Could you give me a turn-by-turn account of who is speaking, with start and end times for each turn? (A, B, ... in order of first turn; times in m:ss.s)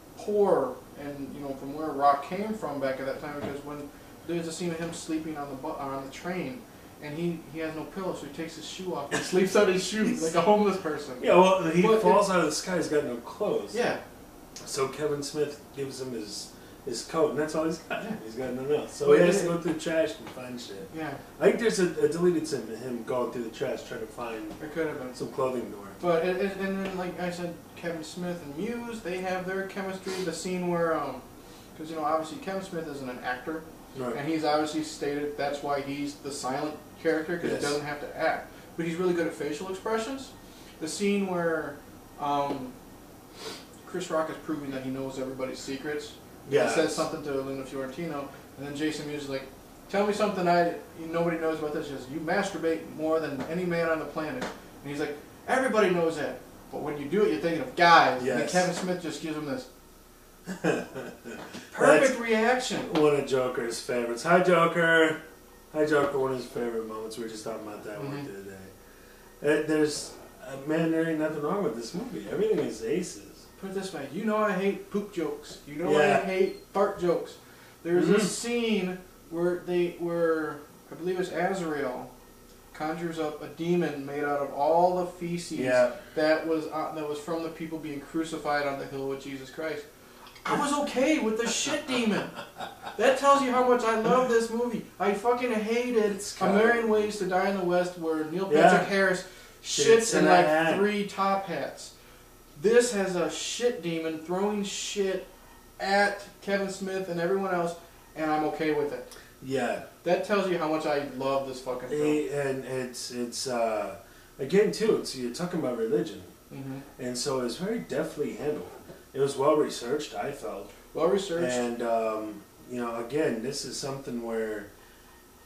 0:00.2-0:12.2 A
0:10.0-0:10.3 B
0:11.2-0:13.8 B
0:13.7-0:14.0 A
0:14.6-0:24.6 B
0:19.0-0:19.6 A
0:20.9-0:21.2 A
0:24.6-0:25.2 A
0:25.1-0:26.0 B
0:26.0-0:31.2 A
0:31.8-0:42.8 A
0:37.4-0:37.8 B
0:43.8-0:59.7 A
0:46.5-0:47.1 B
0:58.2-0:58.7 B
1:00.5-1:02.2 B
1:01.7-1:02.9 A
1:02.7-1:05.2 B
1:05.7-1:08.7 B
1:08.0-1:08.3 A
1:09.4-1:13.4 B
1:13.6-1:22.1 A
1:15.8-1:16.3 B
1:17.9-1:18.4 B
1:22.7-1:29.9 A
1:25.6-1:26.0 B
1:30.4-1:32.4 A
1:32.9-1:41.9 A
1:36.1-1:37.0 B
1:38.5-1:39.0 B
1:39.7-1:40.9 B
1:42.6-1:49.1 A
1:49.4-1:49.9 B
1:50.0-1:52.2 A
1:51.9-1:56.3 B
1:56.5-1:56.9 A
1:57.0-2:00.7 B
2:00.9-2:01.6 A
2:01.4-2:04.7 B